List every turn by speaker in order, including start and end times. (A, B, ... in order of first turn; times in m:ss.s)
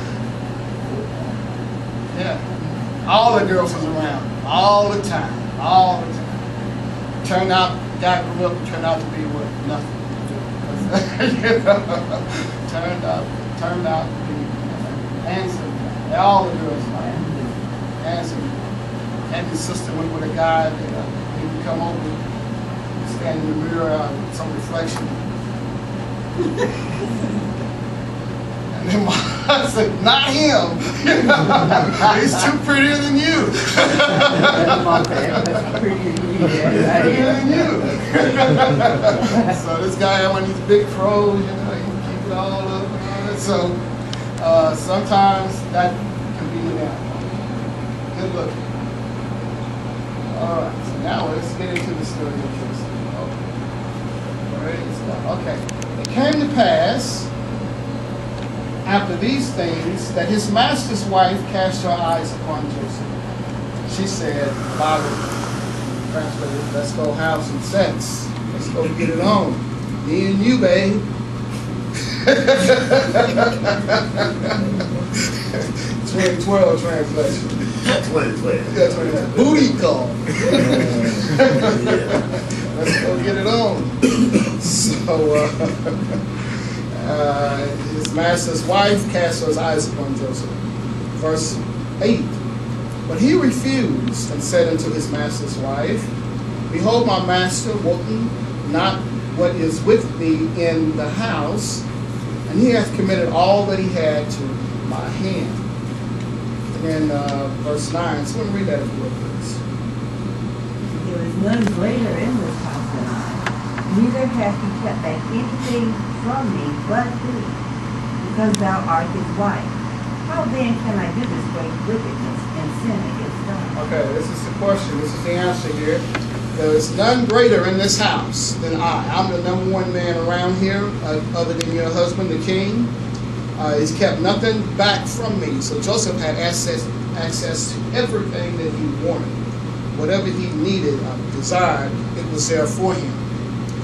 0:00.9-0:01.3 A
0:02.1-0:06.6 A
0:07.2-0:17.3 A
0:16.9-0:17.6 B
0:18.0-0:18.7 A
0:19.3-0:22.2 A
0:23.0-0:25.2 A
0:28.7-0:35.8 A
0:34.2-0:38.4 B
0:36.7-0:43.8 A
0:39.1-0:39.6 B
0:44.4-0:47.4 A
0:48.1-0:48.6 A
0:50.2-0:53.5 A
0:54.5-0:57.3 A
0:58.8-1:03.2 A
1:03.9-1:05.4 A
1:06.0-1:11.1 A
1:12.0-1:17.8 A
1:17.8-1:19.8 C
1:18.7-1:26.2 A
1:20.4-1:23.5 C
1:26.9-1:30.6 A
1:31.2-1:32.4 A
1:33.1-1:36.1 A
1:36.7-1:41.8 A
1:42.5-1:45.7 A
1:46.7-1:49.6 A
1:50.8-1:57.6 B
1:58.2-2:03.8 B
2:03.7-2:13.0 A
2:13.6-2:19.4 A
2:19.9-2:23.2 A